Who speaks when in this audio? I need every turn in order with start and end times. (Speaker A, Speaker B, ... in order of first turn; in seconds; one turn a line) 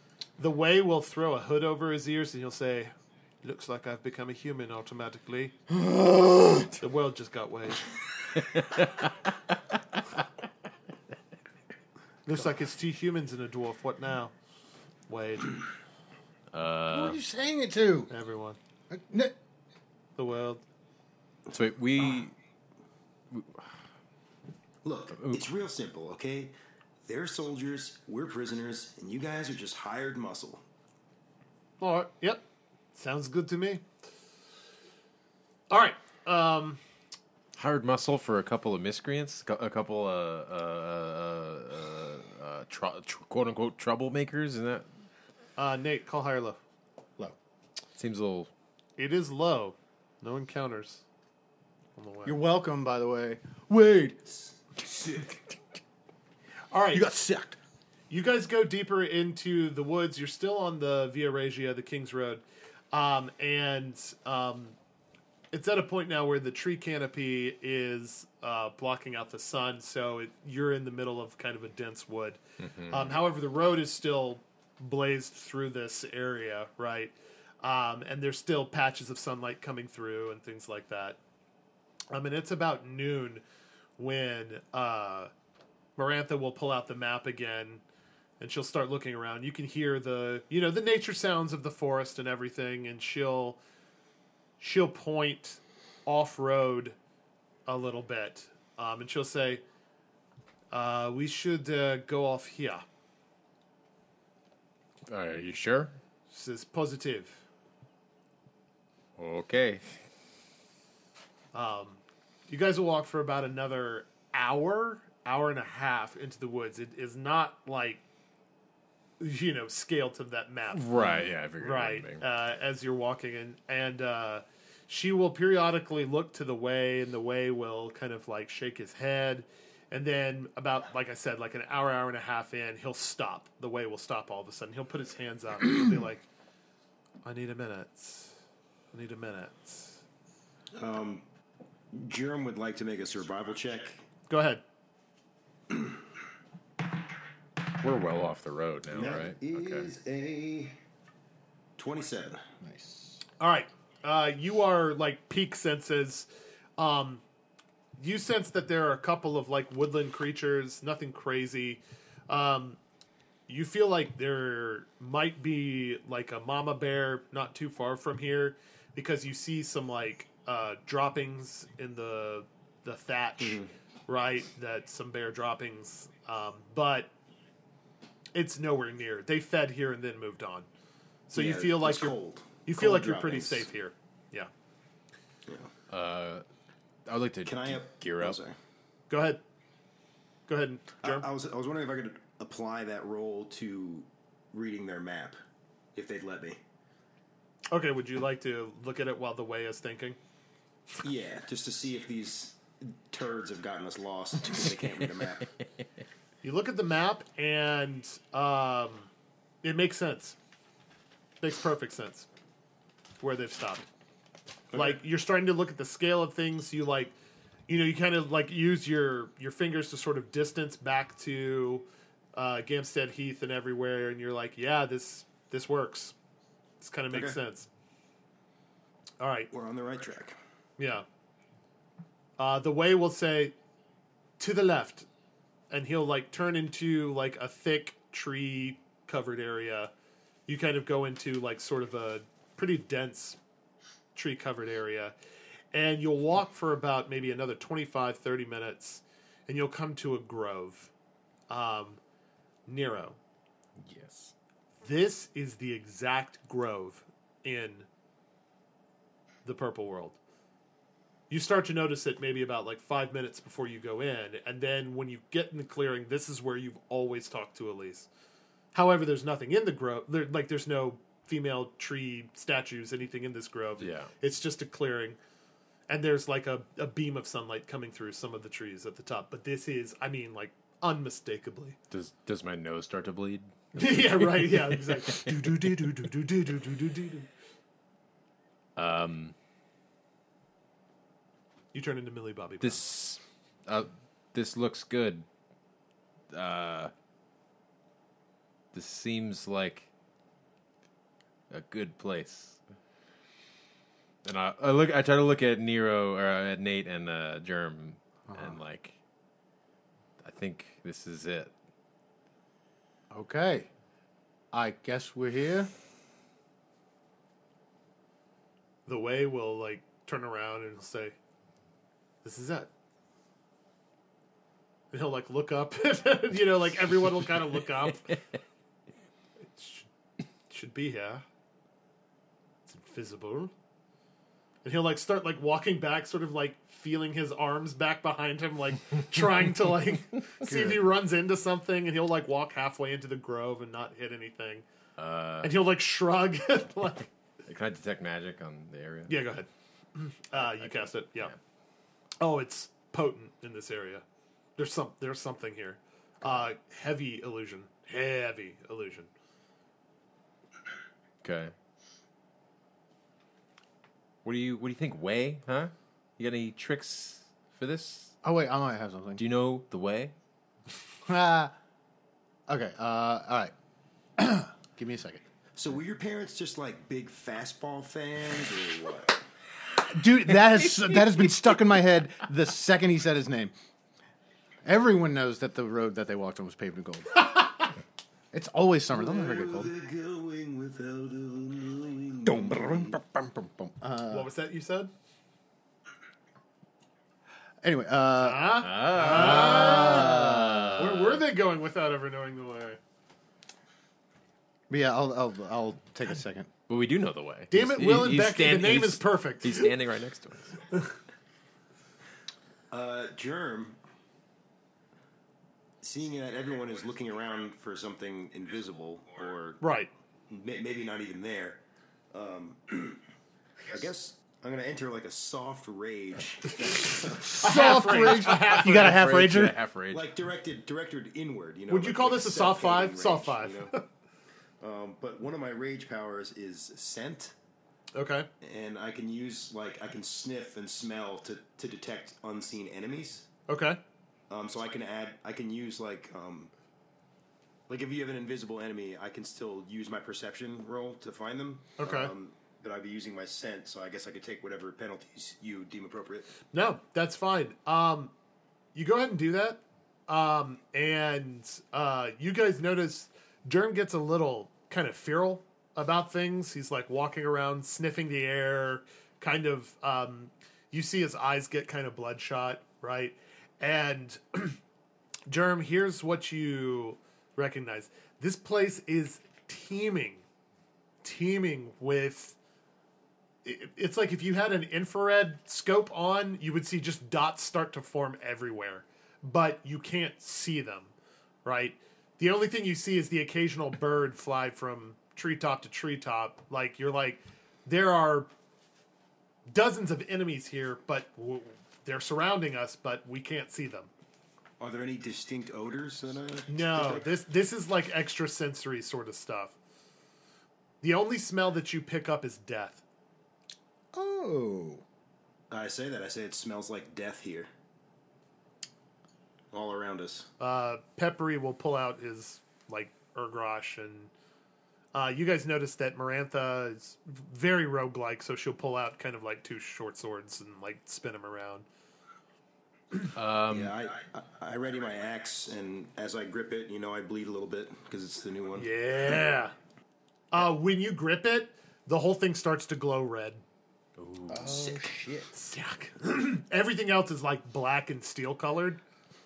Speaker A: 0.4-5.5
Speaker B: 5.7-6.7
Speaker A: 6.8-7.9
Speaker C: 8.6-9.0
Speaker A: 12.2-14.3
Speaker A: 15.1-15.6
Speaker C: 16.5-17.2
Speaker B: 16.9-18.1
Speaker A: 18.1-18.6
Speaker B: 18.9-19.3
Speaker A: 20.1-20.6
Speaker C: 21.5-22.3
Speaker C: 23.3-23.7
Speaker D: 24.8-30.6
Speaker C: 25.1-25.4
Speaker A: 31.8-32.4
Speaker A: 32.9-33.8
Speaker A: 35.7-36.8
Speaker C: 37.5-44.9
Speaker A: 45.6-46.6
Speaker C: 47.9-48.5
Speaker A: 49.0-51.0
Speaker A: 52.0-52.4
Speaker B: 52.2-55.4
Speaker A: 56.7-57.0
Speaker B: 56.9-57.6
Speaker A: 58.1-64.8
Speaker A: 65.5-81.2
Speaker C: 72.6-73.2
Speaker A: 82.1-83.4
Speaker A: 84.0-85.3
Speaker A: 86.0-87.8
Speaker A: 88.4-93.6
Speaker A: 94.6-97.0
Speaker A: 97.7-99.6
Speaker A: 100.7-102.8
Speaker C: 105.1-106.0
Speaker A: 106.3-107.4
Speaker C: 109.2-109.9
Speaker A: 111.5-118.0
Speaker A: 119.2-136.2
Speaker C: 120.7-122.2
Speaker A: 137.2-138.4
Speaker A: 138.9-140.0
Speaker D: 140.7-141.2
Speaker D: 141.9-144.0
Speaker A: 144.3-144.6
Speaker C: 147.8-149.9
Speaker D: 148.9-150.8
Speaker D: 151.8-152.4
Speaker B: 152.6-153.2
Speaker A: 153.4-157.2
Speaker A: 158.0-162.8
Speaker A: 163.5-177.1
Speaker D: 173.4-173.7
Speaker A: 178.3-180.7
Speaker A: 181.3-184.5
Speaker D: 181.3-183.7
Speaker C: 185.9-186.4
Speaker C: 187.1-188.4
Speaker D: 187.4-188.6
Speaker A: 189.1-189.4
Speaker A: 190.5-191.3
Speaker D: 191.0-195.4
Speaker D: 195.9-196.6
Speaker A: 197.7-200.2
Speaker D: 201.0-205.5
Speaker A: 206.4-209.1
Speaker A: 209.6-210.4
Speaker A: 211.4-212.3
Speaker A: 213.2-213.8
Speaker D: 214.7-215.0
Speaker A: 214.7-217.1
Speaker A: 217.7-226.2
Speaker A: 226.8-227.7
Speaker D: 227.1-227.4
Speaker A: 229.2-229.5
Speaker D: 229.5-230.4
Speaker A: 230.8-231.1
Speaker A: 232.4-233.5
Speaker A: 234.4-235.1
Speaker A: 235.7-239.9
Speaker A: 240.5-243.4
Speaker A: 244.1-245.1
Speaker A: 245.7-250.9
Speaker A: 251.5-252.0
Speaker A: 252.7-253.2
Speaker C: 253.8-254.3
Speaker A: 254.8-257.9
Speaker A: 259.4-260.2
Speaker A: 261.3-268.1
Speaker A: 268.7-275.2
Speaker C: 273.8-274.1
Speaker A: 275.9-281.8
Speaker C: 281.9-285.8
Speaker A: 283.7-287.3
Speaker C: 288.8-289.3
Speaker A: 291.7-292.8
Speaker C: 292.6-295.2
Speaker C: 296.3-296.9
Speaker C: 298.7-299.9
Speaker C: 301.5-302.6
Speaker C: 304.2-308.9
Speaker B: 308.3-308.6
Speaker C: 310.2-311.5
Speaker B: 313.1-313.7
Speaker B: 314.5-315.7
Speaker A: 318.9-321.1
Speaker A: 322.2-322.7
Speaker A: 324.9-328.2
Speaker A: 329.5-329.9
Speaker A: 330.5-331.2
Speaker A: 332.7-333.5
Speaker A: 334.6-344.6
Speaker C: 345.0-345.5
Speaker A: 345.4-347.1
Speaker C: 347.4-349.2
Speaker A: 349.1-351.3
Speaker C: 350.3-351.4
Speaker A: 352.2-354.0
Speaker A: 354.6-359.1
Speaker C: 361.2-361.5
Speaker C: 364.2-368.2
Speaker B: 368.2-369.2
Speaker C: 369.2-370.1
Speaker B: 371.1-371.5
Speaker B: 372.5-373.5
Speaker B: 374.2-375.2
Speaker D: 375.6-379.2
Speaker B: 379.9-383.5
Speaker B: 384.6-387.7
Speaker B: 388.3-389.7
Speaker D: 388.9-393.0
Speaker B: 392.2-394.3
Speaker A: 394.1-394.9
Speaker B: 397.6-400.9
Speaker A: 398.2-400.2
Speaker C: 398.6-401.2
Speaker A: 400.8-402.8
Speaker B: 404.7-406.5
Speaker C: 406.7-410.6
Speaker A: 407.5-409.7
Speaker D: 412.7-413.8
Speaker D: 415.8-419.6
Speaker A: 419.6-419.9
Speaker D: 420.3-421.6
Speaker D: 422.1-423.0
Speaker D: 423.7-427.5
Speaker A: 427.2-429.0
Speaker B: 427.3-429.6
Speaker C: 428.3-430.1
Speaker D: 429.9-433.7
Speaker A: 431.7-433.8
Speaker D: 434.6-437.3
Speaker A: 437.9-438.3
Speaker D: 438.4-443.3
Speaker A: 443.5-443.8
Speaker D: 444.3-446.5
Speaker D: 447.7-456.3
Speaker A: 451.8-452.1
Speaker A: 456.5-458.1
Speaker A: 458.7-474.6
Speaker A: 475.3-480.2
Speaker A: 481.0-482.4
Speaker A: 483.4-490.9
Speaker A: 491.4-498.3
Speaker A: 499.5-503.9
Speaker D: 504.6-507.1
Speaker A: 506.5-509.6
Speaker A: 510.8-512.8
Speaker B: 513.9-514.8
Speaker D: 515.5-517.5
Speaker D: 519.5-520.3
Speaker A: 520.4-524.1
Speaker A: 524.9-531.7
Speaker C: 533.1-533.7
Speaker D: 533.5-538.7
Speaker A: 538.6-539.5
Speaker A: 540.3-543.4
Speaker C: 544.0-544.8
Speaker B: 544.3-545.3
Speaker A: 545.3-548.8